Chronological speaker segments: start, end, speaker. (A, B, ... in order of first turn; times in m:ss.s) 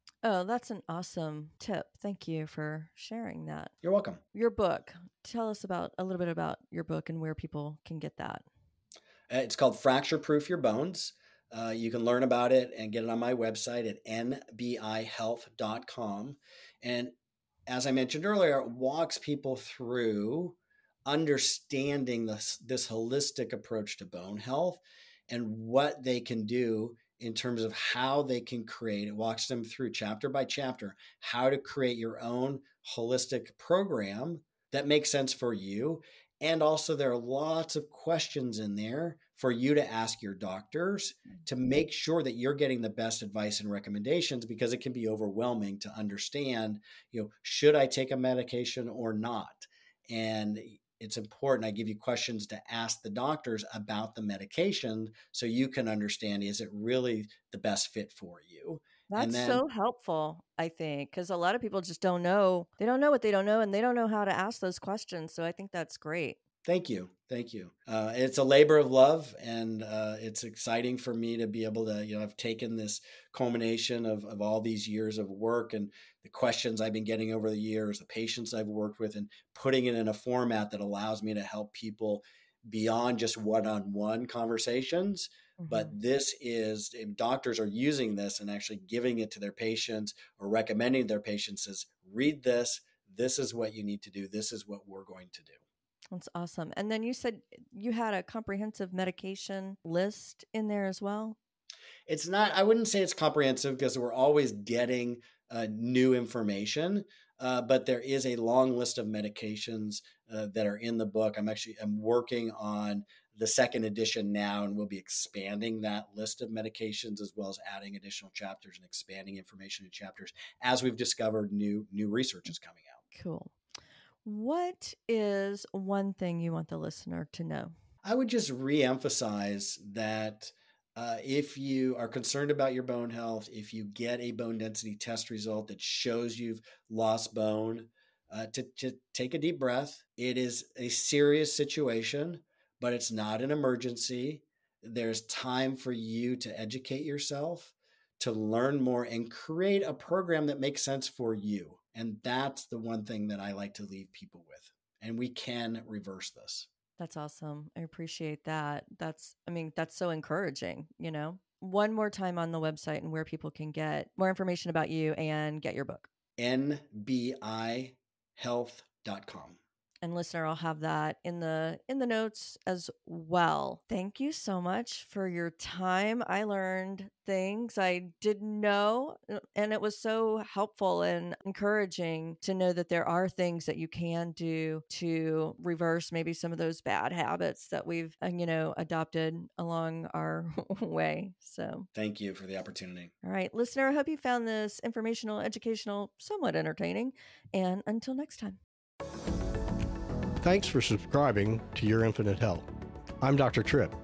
0:00.2-0:03.7 A
0:03.8-0:04.2 B
0:04.3-0:08.5 A
0:09.3-0:17.1 B
0:17.7-0:59.6 B
0:59.1-1:06.4 A
1:06.6-1:35.6 B
1:25.6-1:25.9 A
1:36.1-1:41.4 A
1:42.1-2:03.0 B
2:03.1-2:03.5 A
2:04.2-2:07.7 A
2:08.0-2:36.7 B
2:37.0-2:46.1 A
2:46.4-2:49.6 B
2:50.0-3:11.9 A
3:12.0-3:13.1 B
3:13.2-3:18.6 A
3:20.4-3:22.7 C
3:23.2-3:24.0 C